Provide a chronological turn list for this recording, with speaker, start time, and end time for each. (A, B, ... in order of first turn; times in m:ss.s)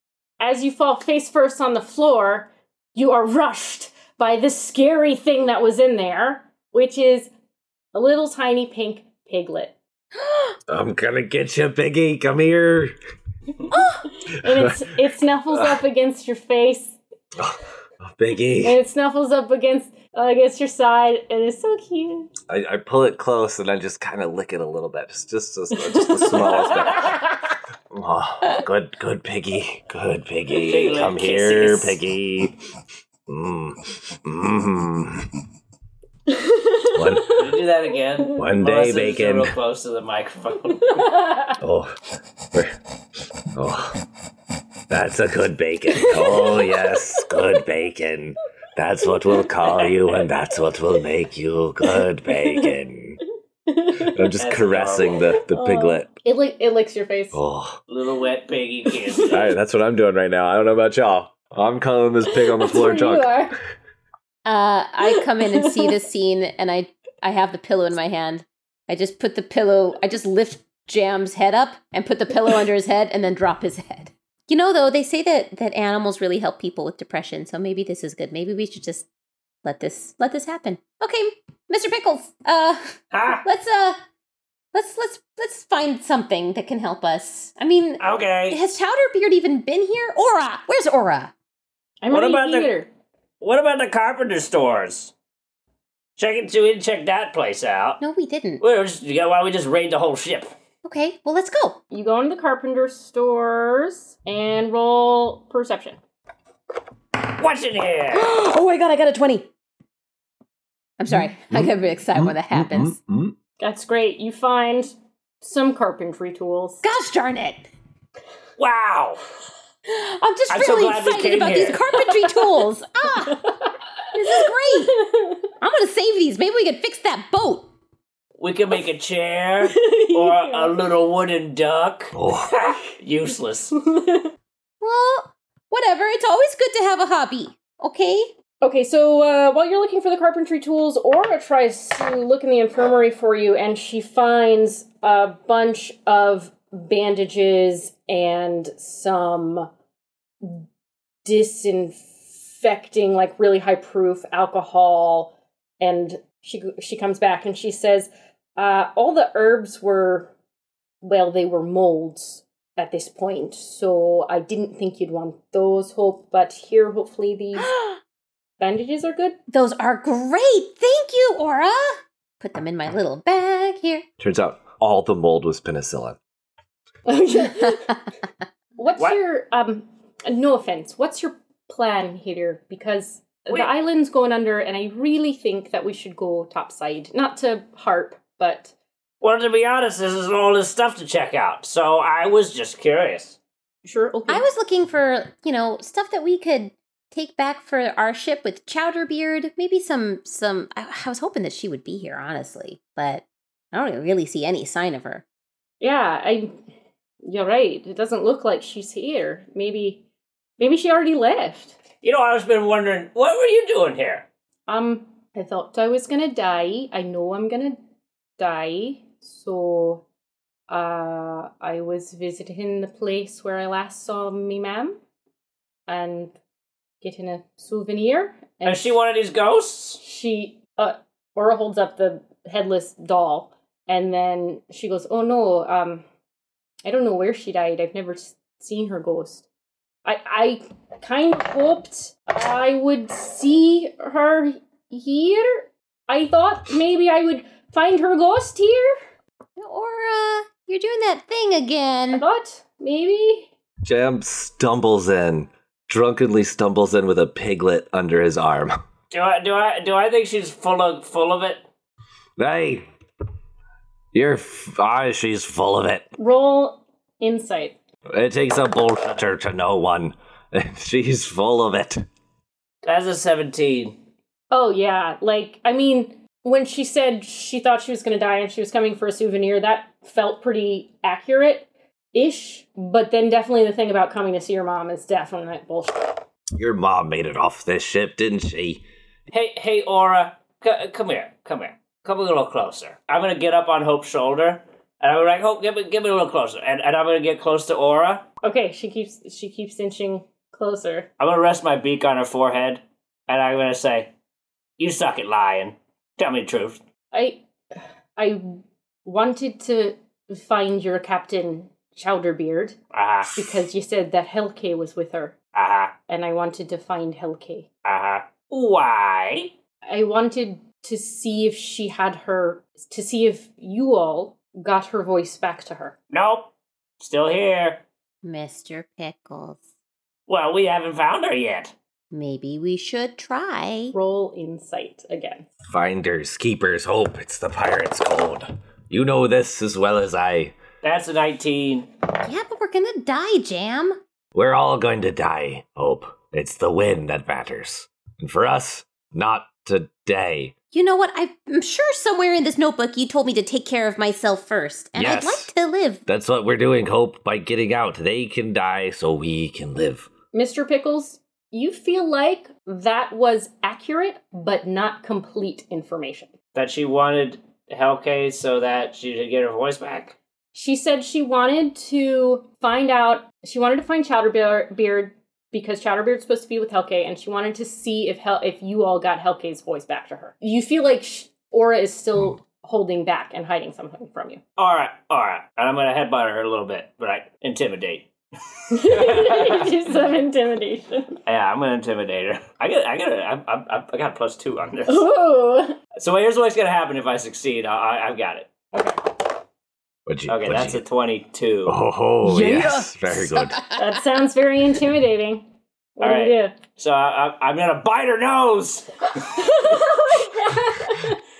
0:00.4-0:07.3 A
0:07.9-0:09.7 A
0:10.2-0:10.6 B
0:10.7-0:13.0 C
0:13.7-0:14.1 B
0:14.0-0:17.0 A
0:14.4-0:14.9 C
0:15.5-0:15.8 C
0:17.4-0:18.8 C
0:18.6-0:22.3 A
0:22.5-0:27.2 C
0:26.0-0:26.7 A
0:27.9-0:32.6 C
0:30.6-0:32.0 D
0:33.3-0:35.3 C
0:36.4-0:37.4 A
0:36.9-0:37.4 C
0:37.3-0:41.1 D
0:38.4-0:39.5 C
0:40.9-0:41.5 A
0:41.6-0:42.0 C
0:43.5-0:44.0 C
0:44.9-0:53.2 C
0:46.0-0:47.4 A
0:49.8-0:50.2 D
0:53.7-0:54.3 A
0:54.0-0:56.1 C
0:54.4-0:55.2 D
0:55.4-0:57.4 A
0:57.3-0:57.8 C
0:57.9-0:59.4 D
0:59.1-0:59.3 A
0:59.3-1:03.4 C
1:02.4-1:03.6 A
1:04.4-1:19.1 B
1:05.4-1:05.9 A
1:19.6-1:24.0 B
1:23.1-1:23.4 D
1:24.7-1:31.3 B
1:28.0-1:28.6 D
1:32.0-1:32.9 A
1:32.1-1:32.7 D
1:33.4-1:35.1 D
1:36.2-1:38.0 D
1:38.0-1:38.6 B
1:38.6-1:40.5 D
1:40.8-1:41.8 B
1:41.9-1:46.0 A
1:47.2-1:48.4 D
1:48.1-1:49.5 B
1:51.0-1:53.0 B
1:51.1-1:53.4 C
1:53.6-1:56.8 A
1:56.8-1:57.6 B
1:58.6-1:59.2 D
1:59.9-2:03.5 B
2:00.5-2:02.0 D
2:04.1-2:05.1 B
2:04.4-2:05.4 A
2:05.6-2:07.7 B
2:08.4-2:13.7 D
2:09.6-2:10.7 A
2:12.1-2:12.5 C
2:13.8-2:14.3 A
2:14.8-2:18.3 B
2:18.6-2:29.7 A
2:31.2-2:40.3 A
2:41.0-2:47.7 A
2:47.6-2:48.0 B
2:48.6-2:49.4 A
2:49.5-2:54.0 B
2:54.2-2:56.2 C
2:57.1-2:58.0 A
2:58.8-3:08.7 A
3:09.2-3:13.4 D
3:13.8-3:14.4 A
3:14.3-3:25.2 B
3:25.8-3:26.6 A
3:27.2-3:30.0 A
3:30.6-3:31.8 A
3:32.0-3:34.3 D
3:34.7-3:37.8 A
3:38.4-3:40.0 A
3:40.7-3:45.0 A
3:45.9-3:46.3 A
3:47.0-3:49.0 A
3:48.6-3:50.0 D
3:50.0-3:56.0 A
3:56.8-3:59.4 A
4:00.0-4:09.0 A
4:09.6-4:12.2 B
4:12.1-4:13.5 A
4:13.8-4:18.8 C
4:19.1-4:21.6 D
4:22.4-4:22.8 C
4:24.1-4:26.1 C
4:26.2-4:27.8 A
4:28.1-4:32.0 C
4:32.8-4:34.0 D
4:34.5-4:46.2 A
4:46.6-4:48.8 C
4:49.3-4:58.2 D
4:58.4-5:01.1 A
5:01.2-5:04.1 D
5:04.8-5:06.8 D
5:07.1-5:07.4 A
5:08.2-5:12.8 A
5:12.9-5:13.5 D
5:13.3-5:15.3 A
5:15.5-5:16.0 D
5:16.1-5:17.7 A
5:17.8-5:19.5 D
5:19.8-5:26.0 A
5:26.1-5:27.8 D
5:28.2-5:29.6 B
5:30.3-5:31.7 D
5:32.1-5:33.9 B
5:33.9-5:35.5 A
5:35.7-5:40.5 C
5:40.8-5:41.9 D
5:42.2-5:44.0 B
5:44.3-5:50.5 C
5:50.7-5:56.0 B
5:55.0-5:55.5 C
5:56.0-6:00.1 C
6:00.3-6:06.3 A
6:06.5-6:10.2 D
6:10.5-6:24.4 A
6:24.6-6:28.1 D
6:28.7-6:29.8 D
6:28.7-6:31.2 A
6:31.2-6:35.0 D
6:34.9-6:35.8 A
6:36.0-6:38.5 D
6:38.7-6:39.0 A
6:40.0-6:40.8 C
6:40.3-6:41.8 D
6:41.6-6:43.6 C
6:42.2-6:43.9 B
6:43.7-6:45.4 A
6:46.0-6:46.6 A
6:46.0-6:49.8 D
6:49.2-6:51.2 A